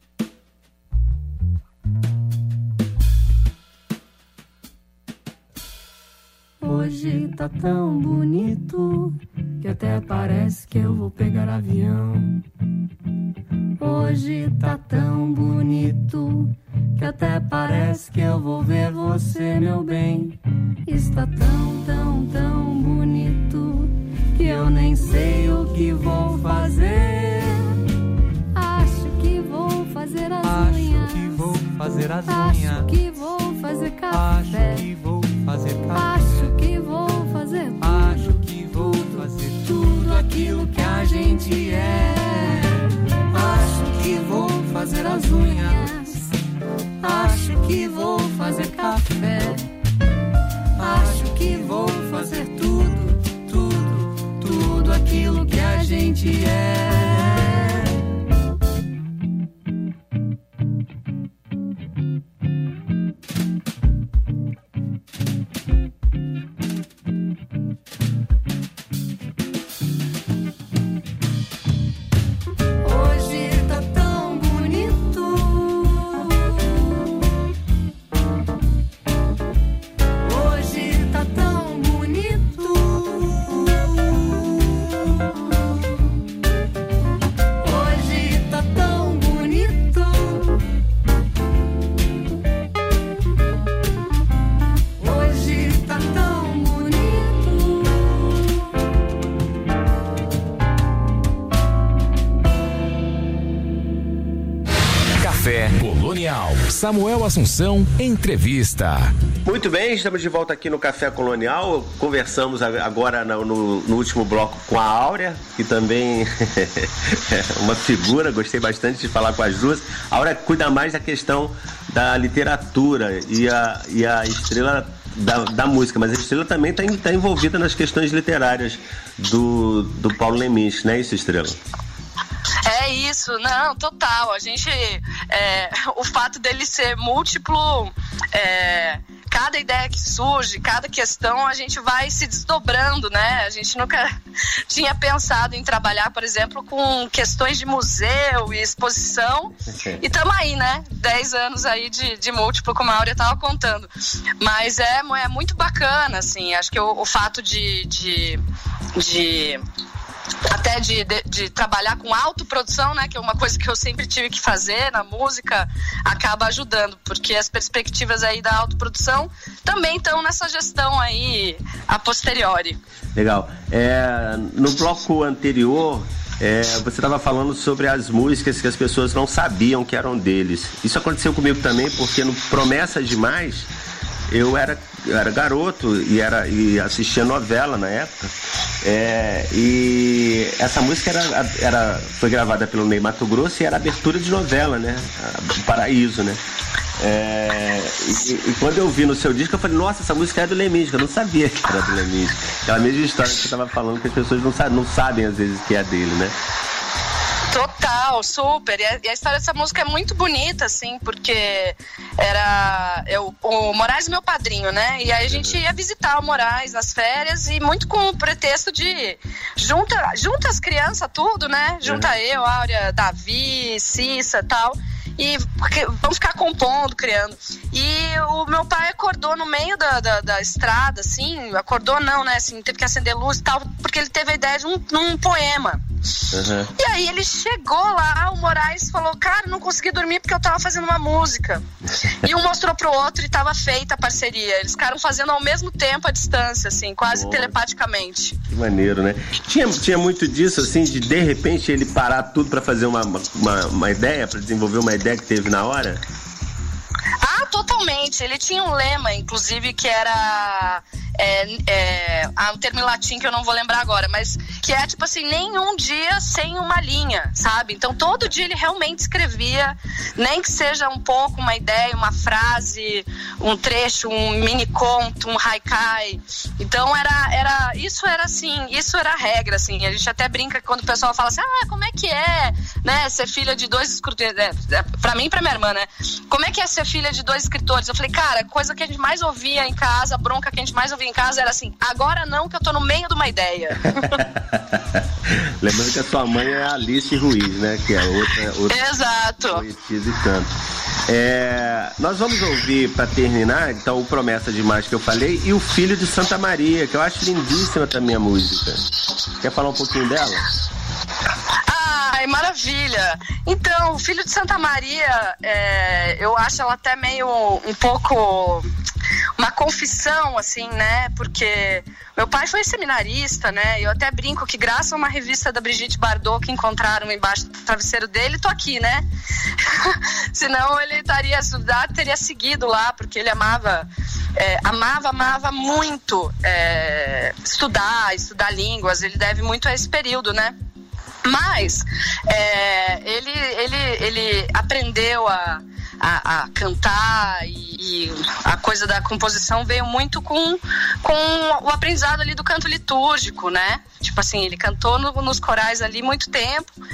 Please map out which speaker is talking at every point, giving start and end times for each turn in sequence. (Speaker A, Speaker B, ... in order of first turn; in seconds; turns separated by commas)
Speaker A: 6.6-12.4, Speaker A: 13.8-20.4, Speaker A: 20.9-27.8, Speaker A: 28.5-31.6, Speaker B: 30.4-32.9, Speaker A: 32.2-34.9, Speaker B: 34.1-36.5, Speaker A: 35.9-42.8, Speaker B: 37.8-41.8, Speaker A: 43.3-46.3, Speaker B: 44.6-46.0, Speaker A: 47.0-49.6, Speaker A: 50.8-57.9, Speaker A: 72.8-76.5, Speaker A: 80.2-84.2, Speaker A: 87.6-90.5, Speaker A: 95.0-98.3, Speaker C: 105.2-109.1, Speaker D: 109.5-131.6, Speaker E: 132.7-144.1, Speaker E: 144.7-153.9, Speaker E: 154.4-158.4, Speaker E: 159.0-159.6, Speaker E: 160.5-172.8, Speaker D: 173.2-183.7, Speaker D: 184.3-188.3, Speaker D: 188.8-196.4, Speaker D: 197.0-206.4, Speaker E: 207.5-235.8, Speaker D: 215.2-215.6, Speaker D: 221.8-222.1, Speaker D: 236.3-236.7, Speaker E: 236.8-241.6, Speaker E: 242.2-248.4, Speaker D: 247.1-247.5, Speaker D: 248.5-256.0, Speaker E: 257.2-294.2, Speaker D: 294.0-298.8, Speaker E: 298.7-299.6, Speaker D: 299.5-300.5, Speaker D: 301.1-310.5, Speaker E: 311.7-318.7, Speaker E: 319.4-329.0, Speaker E: 329.7-340.5, Speaker E: 341.2-356.7